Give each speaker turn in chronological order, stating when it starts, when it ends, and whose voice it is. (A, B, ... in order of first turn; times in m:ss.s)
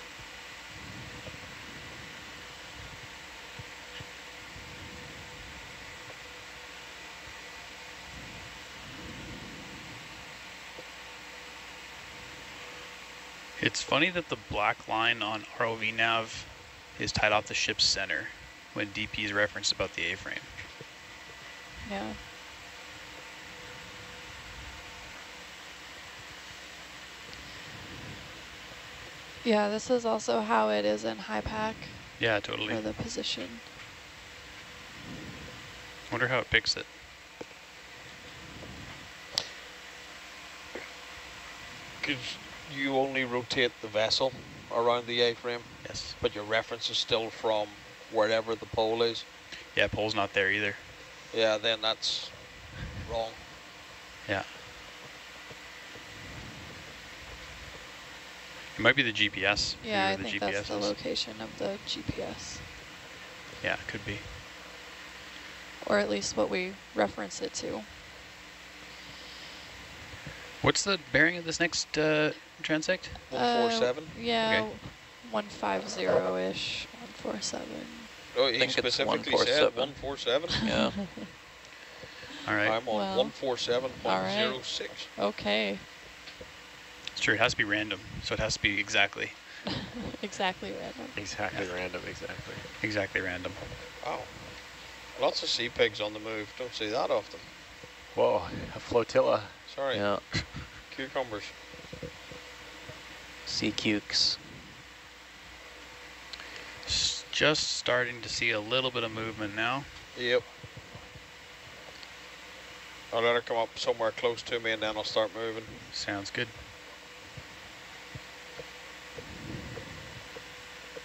0:13.6-0:20.6 A
0:21.8-0:22.2 B
0:29.4-0:33.7 B
0:32.2-0:32.9 A
0:36.1-0:36.9 A
0:42.0-0:49.3 C
0:45.8-0:46.2 A
0:49.7-0:50.9 A
0:51.3-0:53.5 C
0:54.2-0:54.6 A
0:58.8-1:01.0 A
0:59.8-1:02.7 B
1:03.6-1:04.3 A
1:05.8-1:07.9 B
1:10.6-1:13.3 A
1:13.3-1:14.3 C
1:13.3-1:18.1 B
1:14.4-1:14.7 A
1:18.3-1:20.7 C
1:18.6-1:20.0 D
1:20.6-1:21.2 D
1:22.4-1:22.8 A
1:22.6-1:25.1 C
1:22.9-1:25.9 B
1:27.2-1:29.8 A
1:30.1-1:31.2 B
1:31.1-1:32.7 E
1:32.8-1:33.8 A
1:34.0-1:37.6 C
1:38.1-1:39.6 E
1:39.7-1:41.6 C
1:39.9-1:40.4 D
1:43.5-1:44.7 D
1:46.8-1:49.9 A
1:50.1-1:50.4 C
1:53.1-1:55.8 C
1:55.9-1:56.6 A